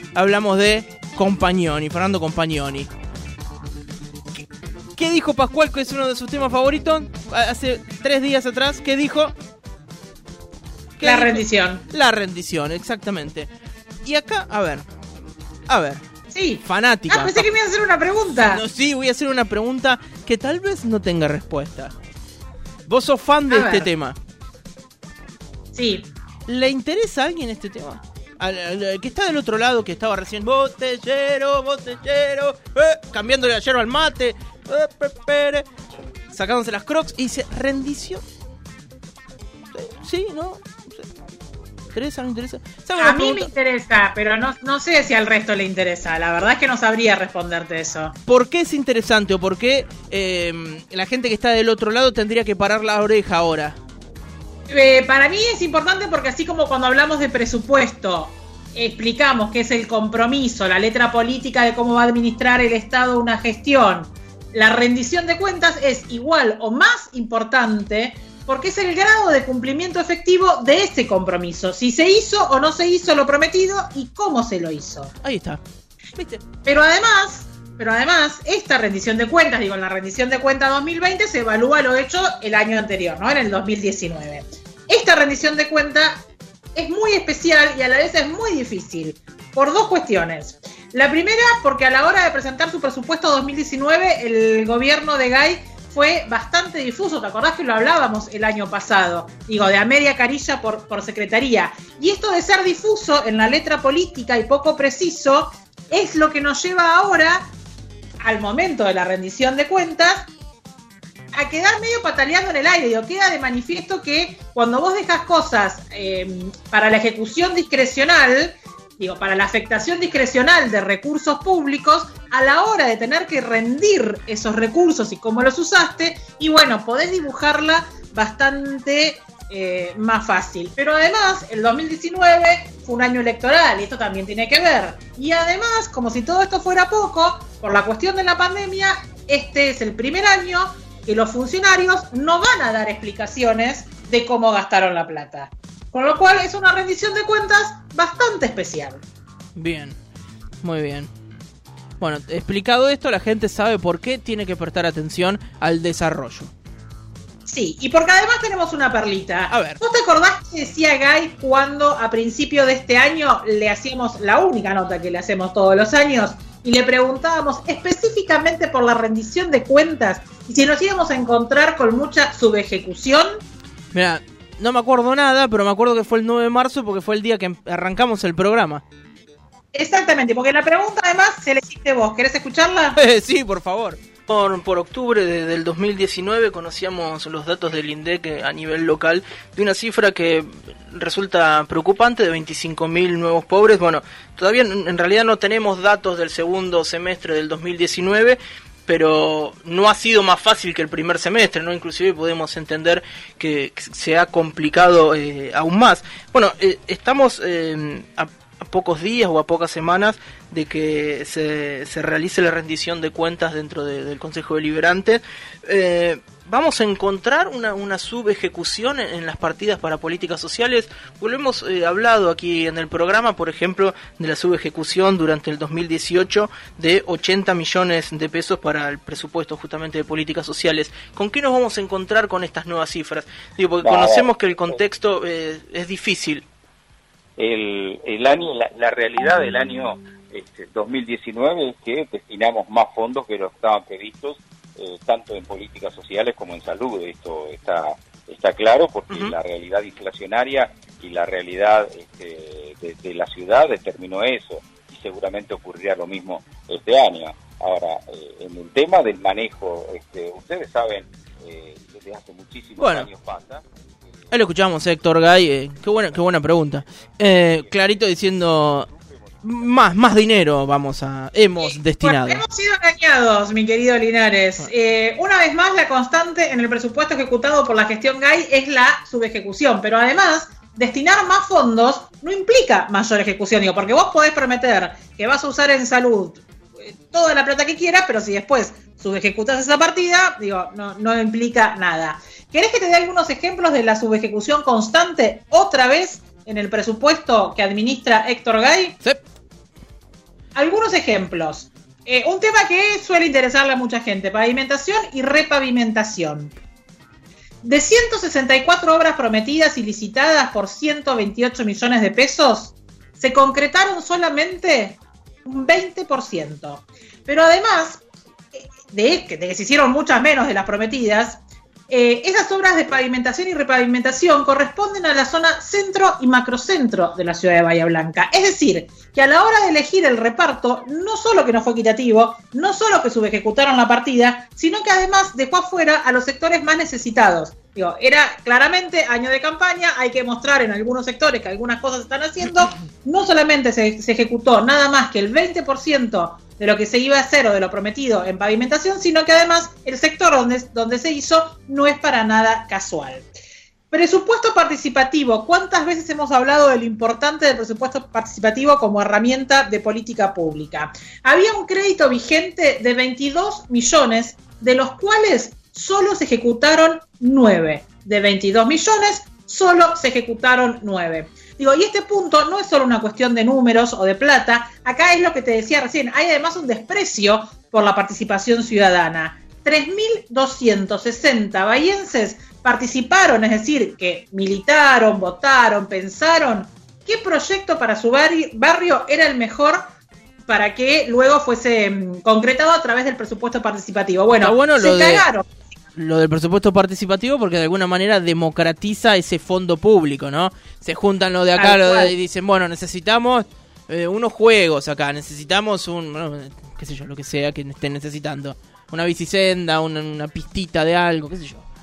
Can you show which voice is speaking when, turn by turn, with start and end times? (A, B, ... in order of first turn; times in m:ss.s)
0:00.1-0:02.9 A
0:04.9-0:09.3 A
0:11.0-0:13.5 A
0:11.0-0:11.8 B
0:14.0-0:14.9 A
0:15.7-0:16.0 A
0:16.3-0:18.6 B
0:16.6-0:17.5 A
0:18.5-0:21.9 A
0:22.8-0:24.2 A
0:23.5-0:23.9 B
0:25.7-0:26.1 B
0:26.5-0:35.6 A
0:36.3-0:38.2 A
0:39.7-0:41.1 A
0:41.9-0:43.5 A
0:43.0-0:48.2 B
0:48.3-0:53.8 A
0:54.7-1:15.1 B
1:15.2-1:15.6 A
1:16.2-1:16.4 A
1:16.6-1:26.2 B
1:26.7-1:47.5 B
1:48.2-1:50.3 B
1:51.3-2:29.0 B
2:29.6-2:30.0 A
2:30.6-2:31.1 A
2:32.0-2:36.5 A
2:37.4-2:53.4 B
2:39.5-2:39.8 A
2:53.9-2:58.8 A
2:59.7-3:03.0 B
3:03.0-3:56.5 A
3:53.8-3:54.8 C
3:57.4-4:23.7 C
4:22.8-4:23.1 A
4:24.3-4:28.9 A
4:28.9-4:29.6 C
4:29.4-4:32.4 A
4:31.6-4:59.0 B
5:00.5-5:06.5 B
5:07.6-5:53.3 B
5:53.9-6:29.9 B
6:30.5-6:35.5 B
6:34.4-6:35.3 A
6:35.9-6:51.6 A
6:41.6-6:42.1 B